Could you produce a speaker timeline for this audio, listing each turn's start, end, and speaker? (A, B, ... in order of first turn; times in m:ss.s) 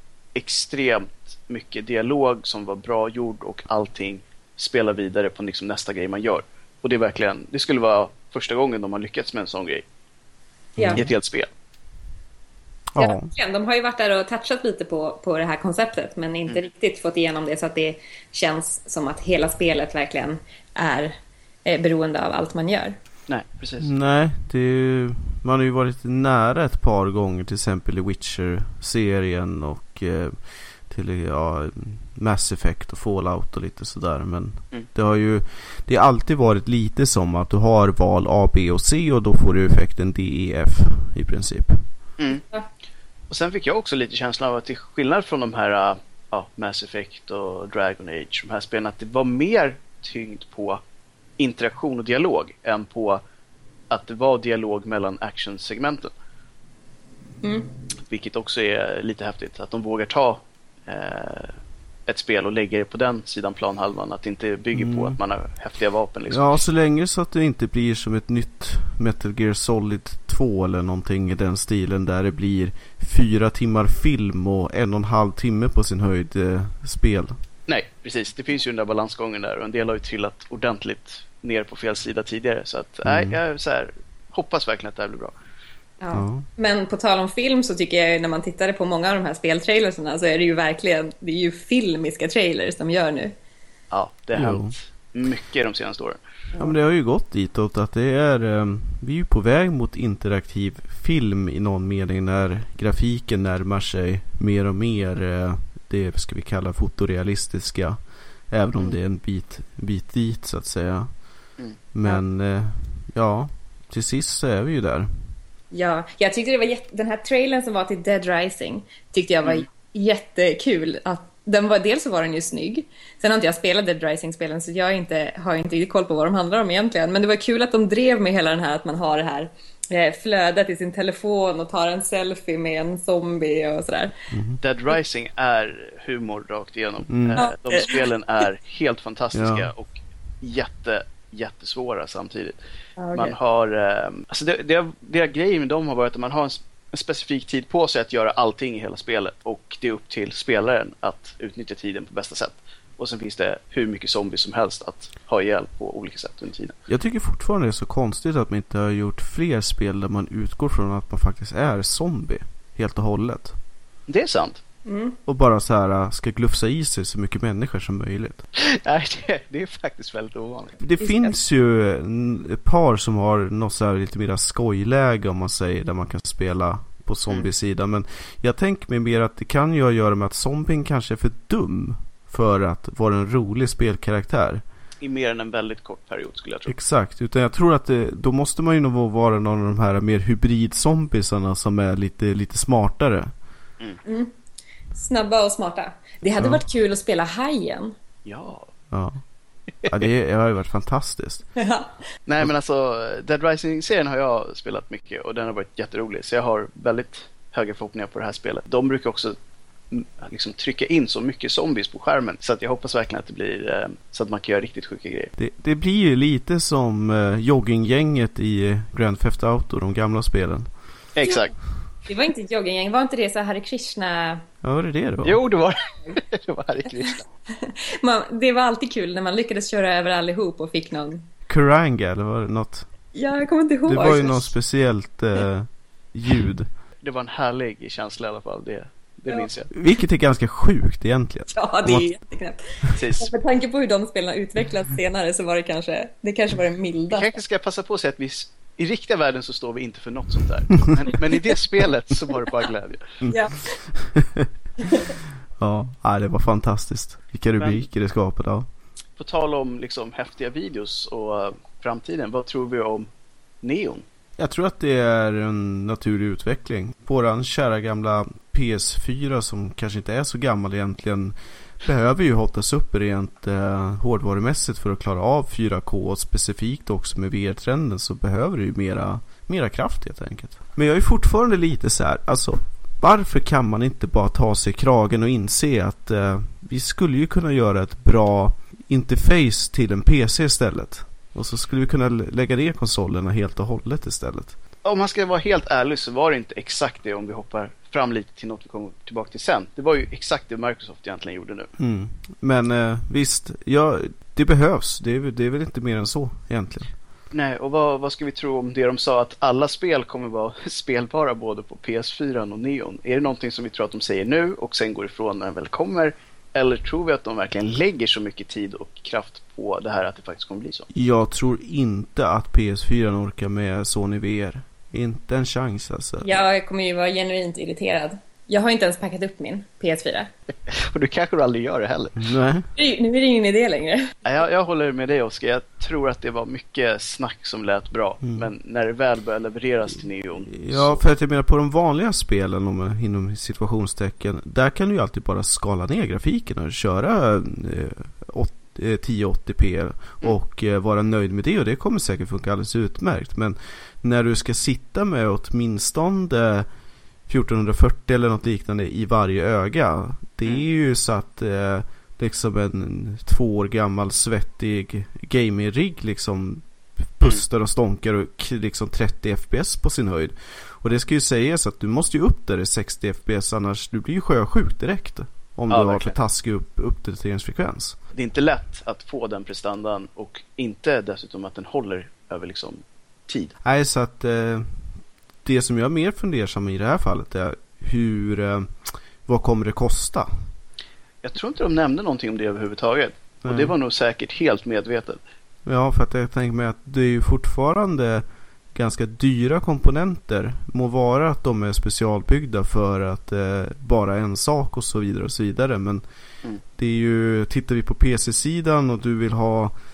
0:00.4-0:09.8 A
0:10.8-0:11.0 B
0:11.0-0:11.5 A
0:12.9-0:13.3 B
0:13.0-0:23.0 C
0:23.3-0:24.0 A
0:23.8-0:41.8 B
0:42.3-0:42.7 C
0:43.3-0:50.8 A
0:51.4-0:53.2 A
0:53.9-0:56.1 A
0:57.4-0:57.7 C
0:58.1-1:01.5 A
1:02.1-1:06.5 A
1:04.7-1:05.2 B
1:06.3-1:17.4 B
1:17.7-1:25.3 A
1:23.0-1:23.4 B
1:26.0-1:33.3 C
1:26.1-1:26.5 B
1:33.9-1:36.2 A
1:34.4-1:34.7 B
1:36.6-1:48.0 B
1:48.5-1:51.1 B
1:51.9-1:55.1 B
1:55.7-2:14.1 C
2:14.3-2:14.6 B
2:14.6-2:22.6 A
2:17.1-2:17.4 B
2:17.4-2:18.1 C
2:19.3-2:19.7 B
2:23.0-2:23.4 C
2:23.1-2:36.8 A
2:36.9-2:43.6 B
2:44.1-2:44.6 A
2:44.9-2:45.2 C
2:45.3-2:48.4 B
2:48.6-2:50.8 A
2:50.8-3:04.6 B
2:51.0-2:51.3 C
3:05.0-3:06.8 A
3:06.7-3:13.3 B
3:14.0-3:14.3 C
3:14.9-3:18.0 C
3:18.3-3:18.7 A
3:18.9-3:19.2 B
3:19.9-3:21.5 B
3:21.6-3:21.9 C
3:22.3-3:29.4 A
3:29.9-3:35.3 A
3:35.4-3:40.7 B
3:41.1-3:41.6 A
3:42.1-3:44.4 C
3:44.6-3:45.4 B
3:45.2-3:47.3 A
3:47.6-3:51.2 C
3:51.5-3:52.9 B
3:53.2-3:54.5 C
3:53.9-3:56.7 B
3:57.0-3:59.7 A
3:59.7-4:02.1 B
4:01.5-4:07.3 C
4:03.0-4:03.3 A
4:07.1-4:13.2 A
4:13.2-4:14.5 B
4:13.3-4:13.7 C
4:15.6-4:18.7 B
4:17.6-4:17.8 A
4:19.2-4:23.1 A
4:23.6-4:24.0 A
4:24.4-4:54.6 B
4:54.8-5:01.7 A
5:01.8-5:06.9 B
5:07.3-5:20.9 A
5:20.9-5:26.4 B
5:26.2-5:30.3 C
5:30.7-5:32.3 A
5:32.2-5:32.7 B
5:32.8-5:34.1 C
5:34.2-5:41.0 A
5:40.5-5:56.7 B
5:57.3-6:06.6 B
6:07.2-6:18.0 B
6:15.7-6:16.2 A
6:18.2-6:23.6 A
6:23.6-6:24.9 B
6:25.4-6:30.5 B
6:31.2-6:35.2 A
6:33.4-6:33.7 B
6:35.7-6:46.0 B
6:46.8-6:49.7 B